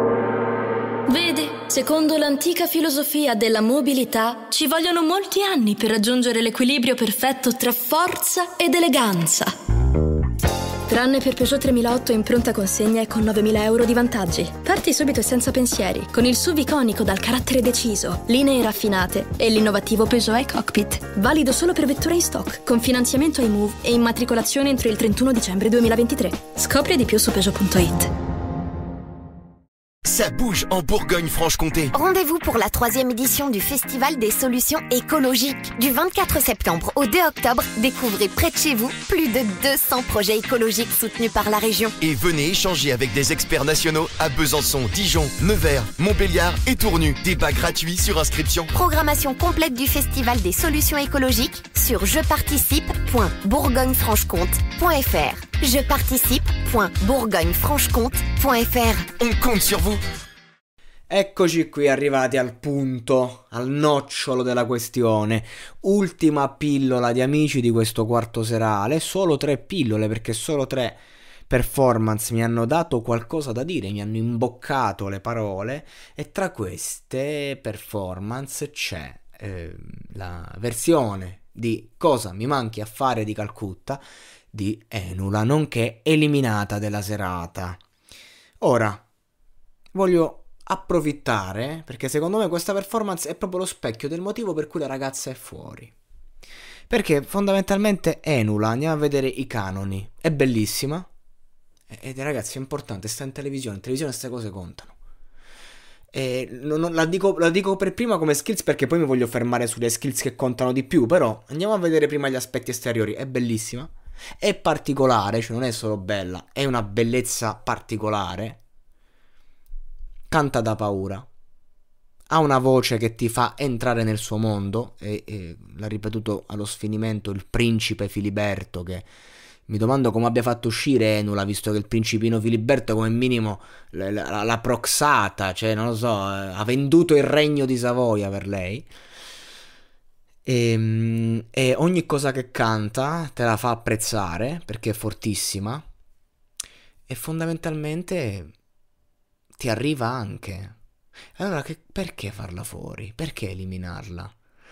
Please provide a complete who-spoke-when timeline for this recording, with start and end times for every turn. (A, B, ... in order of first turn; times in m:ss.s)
0:01.1-0:09.5 A
0:10.9-0:28.1 A
0:30.1-0:31.9 B
0:31.9-0:41.9 C
0:42.0-0:48.7 B
0:48.7-0:59.1 C
0:59.2-1:00.0 B
1:01.1-1:27.8 D
1:28.6-1:29.0 D
1:29.9-1:35.9 D
1:36.9-1:41.1 D
1:41.9-1:44.9 D
1:46.1-1:58.6 D
2:00.3-2:01.3 D
2:02.3-2:09.1 D
2:09.7-2:18.9 D
2:20.5-2:25.8 D
2:27.1-2:28.5 D
2:29.6-2:30.8 D
2:31.4-2:34.3 D